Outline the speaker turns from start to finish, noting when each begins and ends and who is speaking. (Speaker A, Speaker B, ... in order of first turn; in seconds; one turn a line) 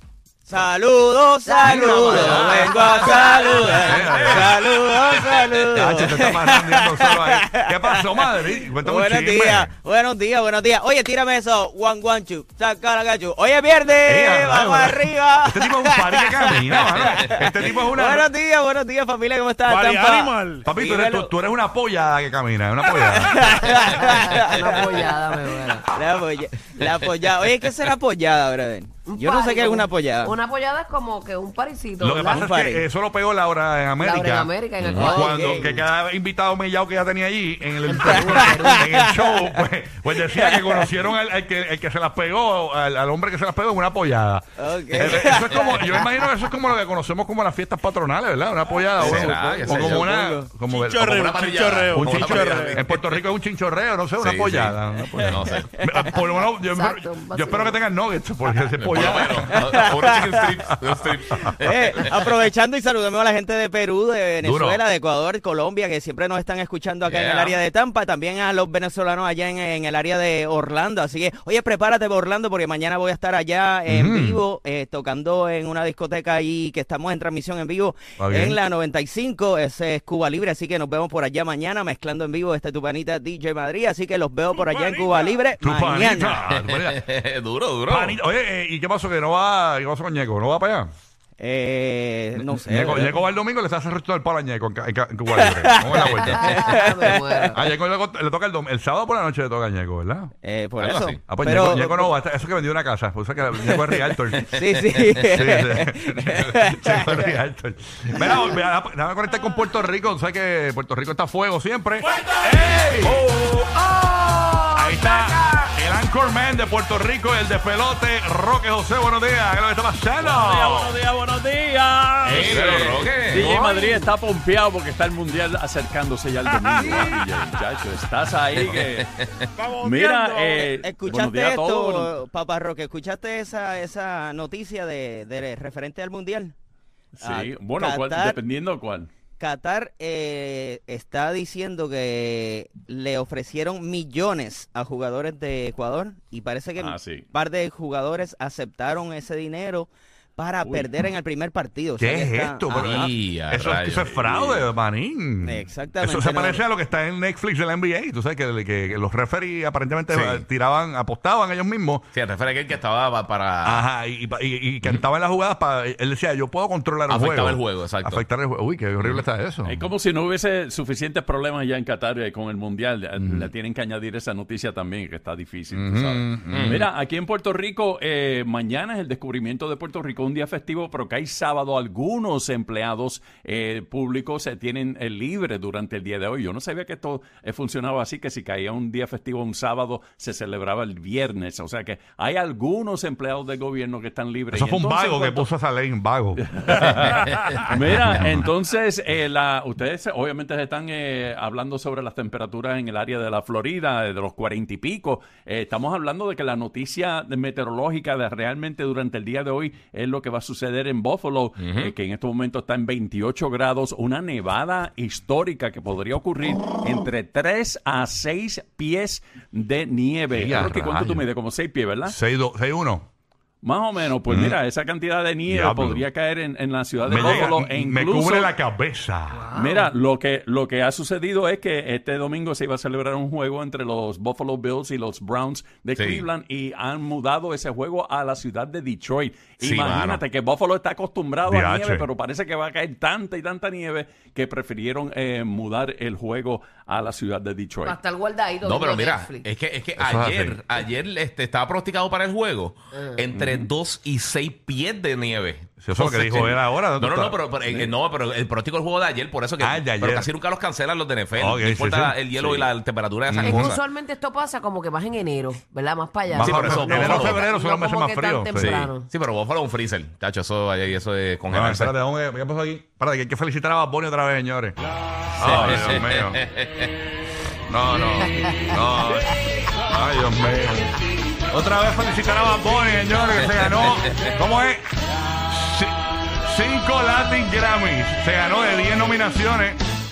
Speaker A: 0.5-8.2
Speaker B: 1.4-4.2
Speaker C: 1.6-4.9
Speaker D: 1.8-2.2
Speaker C: 5.7-9.7
Speaker A: 8.8-16.9
Speaker C: 14.1-18.2
Speaker A: 17.5-20.2
Speaker E: 19.6-20.7
Speaker C: 20.6-23.7
Speaker A: 20.8-21.3
Speaker A: 23.0-24.2
Speaker B: 23.6-25.9
Speaker A: 25.9-30.3
Speaker D: 26.8-27.1
Speaker B: 29.0-32.5
Speaker C: 32.0-44.4
Speaker A: 32.3-32.8
Speaker B: 34.0-35.9
Speaker D: 34.8-35.3
Speaker B: 37.9-38.9
Speaker A: 38.2-38.8
Speaker A: 40.4-40.9
Speaker A: 44.6-46.0
Speaker C: 45.0-51.2
Speaker D: 49.0-50.1
Speaker E: 50.6-52.9
Speaker D: 50.9-53.2
Speaker C: 51.9-61.5
Speaker D: 54.2-55.8
Speaker B: 56.1-57.8
Speaker D: 58.6-62.2
Speaker A: 61.7-86.3
Speaker C: 64.4-64.8
Speaker D: 67.0-67.6
Speaker C: 73.9-74.4
Speaker C: 78.2-78.6
Speaker E: 84.5-85.5
Speaker C: 85.6-87.0
Speaker D: 86.4-88.2
Speaker C: 87.9-90.9
Speaker A: 91.4-93.2
Speaker C: 92.3-100.3
Speaker A: 95.3-96.2
Speaker B: 96.0-97.5
Speaker A: 100.4-102.1
Speaker D: 100.8-101.3
Speaker C: 101.3-113.3
Speaker A: 103.7-103.9
Speaker D: 104.5-105.3
Speaker A: 104.6-107.0
Speaker F: 112.0-115.6
Speaker C: 114.2-120.9
Speaker F: 120.2-129.1
Speaker D: 122.2-123.5
Speaker B: 123.4-124.1
Speaker E: 126.6-127.2
Speaker D: 128.6-129.5
Speaker E: 129.6-130.7
Speaker F: 129.8-132.1
Speaker A: 130.8-136.5
Speaker F: 137.2-139.1
Speaker A: 137.2-138.4
Speaker A: 139.4-152.6
Speaker F: 146.8-147.2
Speaker F: 150.6-150.9
Speaker C: 152.0-162.1
Speaker D: 152.7-154.7
Speaker A: 155.4-156.6
Speaker D: 160.1-160.4
Speaker D: 162.1-163.8
Speaker C: 163.6-169.8
Speaker D: 167.1-168.2
Speaker F: 169.7-195.5
Speaker C: 173.2-173.5
Speaker C: 175.7-176.8
Speaker D: 176.5-176.8
Speaker C: 194.5-196.6
Speaker F: 196.5-222.2
Speaker D: 211.6-211.9
Speaker C: 220.3-221.2
Speaker C: 222.1-223.1
Speaker F: 223.6-228.5
Speaker C: 224.3-224.6
Speaker C: 225.5-226.1
Speaker C: 227.0-229.5
Speaker B: 229.3-229.9
Speaker F: 229.5-248.0
Speaker D: 235.9-236.3
Speaker D: 239.6-240.2
Speaker C: 241.4-242.1
Speaker B: 247.8-249.5
Speaker D: 248.6-263.8
Speaker C: 250.0-250.6
Speaker F: 253.3-253.7
Speaker C: 255.8-257.4
Speaker C: 259.6-260.3
Speaker C: 261.4-262.7
Speaker C: 263.3-263.7
Speaker B: 263.4-269.1
Speaker C: 266.3-268.9
Speaker D: 266.3-267.4
Speaker D: 268.5-271.9
Speaker C: 271.5-274.8
Speaker C: 275.4-276.4
Speaker D: 275.4-276.6
Speaker C: 277.7-279.4
Speaker B: 278.5-278.8
Speaker C: 279.9-280.9
Speaker C: 281.5-284.9
Speaker C: 285.4-289.8